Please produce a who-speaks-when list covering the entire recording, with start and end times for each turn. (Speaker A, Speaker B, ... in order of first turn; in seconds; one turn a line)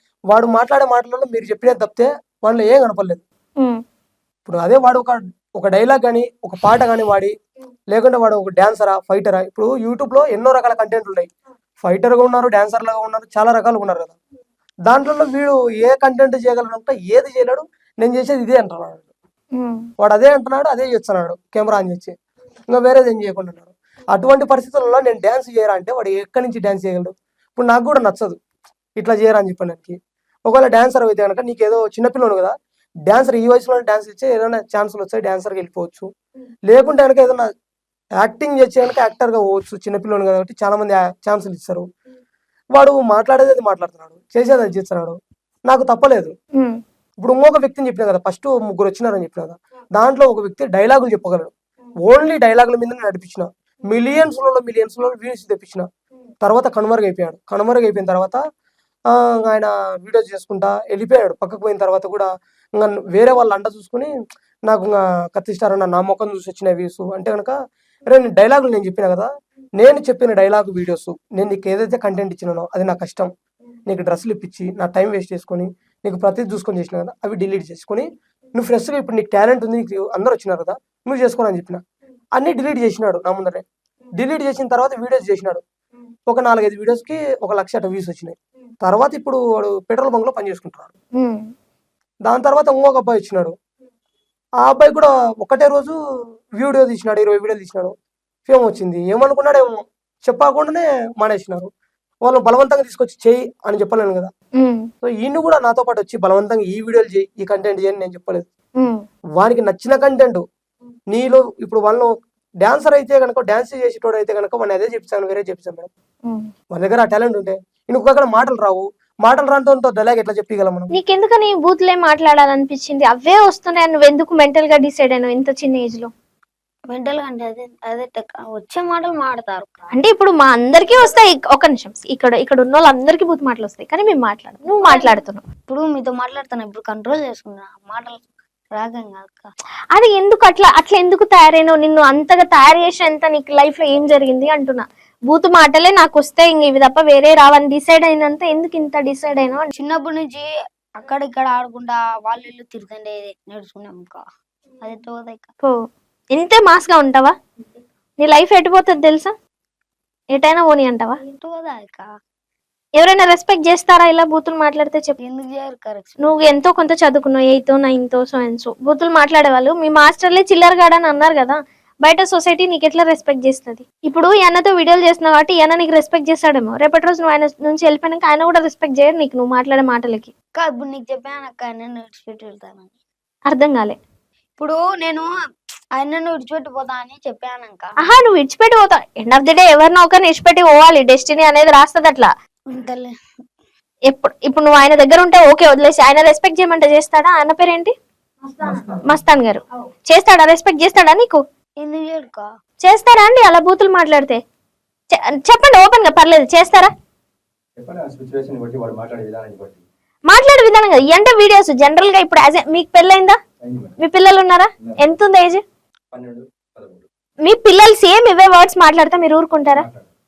Speaker A: 0.3-3.2
Speaker A: 4.5-7.3
Speaker A: 7.9-11.3
Speaker A: 11.8-14.2
Speaker A: 14.9-19.1
Speaker B: 19.6-19.9
Speaker A: 20.0-22.1
Speaker A: 22.7-28.4
Speaker A: 29.0-32.5
Speaker A: 33.1-36.1
Speaker A: 36.7-37.5
Speaker A: 38.2-41.9
Speaker A: 42.7-45.2
Speaker A: 45.7-46.3
Speaker A: 47.2-51.5
Speaker A: 52.0-55.9
Speaker A: 56.4-58.4
Speaker A: 59.1-64.1
Speaker A: 64.7-67.5
Speaker A: 68.1-73.3
Speaker A: 73.9-81.8
Speaker A: 82.3-83.6
Speaker A: 84.2-85.6
Speaker A: 86.3-90.9
Speaker B: 91.2-91.5
Speaker A: 92.2-93.5
Speaker A: 94.6-96.0
Speaker A: 96.6-97.9
Speaker A: 98.5-101.7
Speaker A: 102.2-104.3
Speaker B: 104.6-104.9
Speaker A: 105.0-108.5
Speaker A: 109.4-110.4
Speaker A: 111.1-115.9
Speaker A: 116.7-120.9
Speaker B: 120.9-126.1
Speaker C: 126.9-129.9
Speaker B: 129.9-135.4
Speaker C: 134.8-135.2
Speaker C: 135.7-138.2
Speaker C: 138.8-139.5
Speaker B: 139.9-149.7
Speaker C: 149.8-150.5
Speaker C: 151.0-154.2
Speaker C: 154.8-155.5
Speaker B: 156.3-157.3
Speaker B: 158.2-159.3
Speaker B: 160.3-161.2
Speaker C: 161.3-162.1
Speaker B: 163.0-165.1
Speaker C: 165.2-166.3
Speaker B: 166.2-180.3
Speaker C: 180.6-182.9
Speaker B: 183.5-184.0
Speaker C: 184.6-185.3
Speaker C: 186.0-187.9
Speaker B: 188.0-192.3
Speaker C: 192.7-193.1
Speaker B: 194.1-197.9
Speaker B: 198.6-201.4
Speaker C: 201.8-202.5
Speaker B: 202.8-204.4
Speaker B: 205.1-206.9
Speaker D: 207.8-209.8
Speaker B: 210.3-213.4
Speaker D: 213.6-214.0
Speaker B: 214.0-215.6
Speaker D: 216.1-217.1
Speaker B: 217.4-219.8
Speaker D: 219.7-220.1